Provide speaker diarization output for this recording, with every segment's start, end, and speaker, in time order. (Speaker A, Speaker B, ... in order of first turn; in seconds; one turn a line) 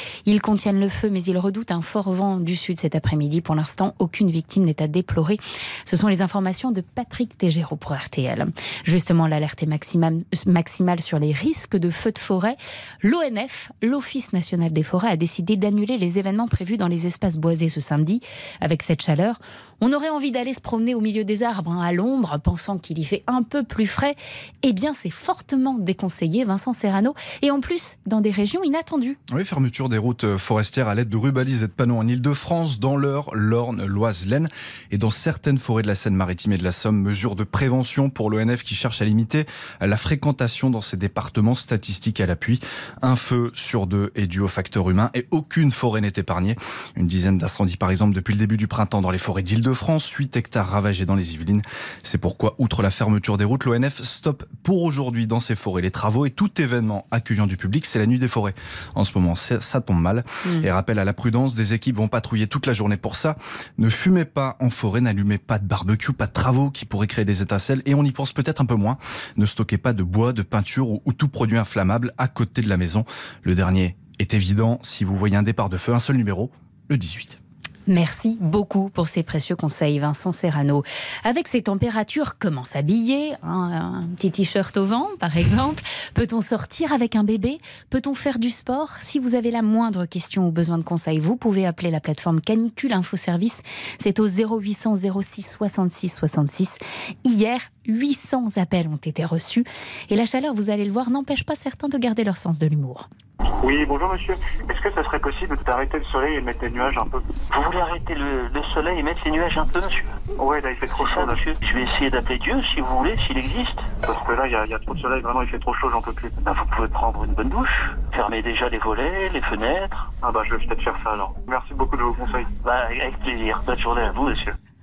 Speaker A: 0.2-29.2
Speaker B: 29.3-77.4
Speaker A: 77.9-103.1
Speaker C: 103.6-107.3
Speaker D: 107.5-110.1
Speaker C: 110.4-111.6
Speaker D: 111.0-113.9
Speaker C: 113.9-116.6
Speaker D: 116.5-120.1
Speaker C: 120.1-122.6
Speaker D: 122.6-124.5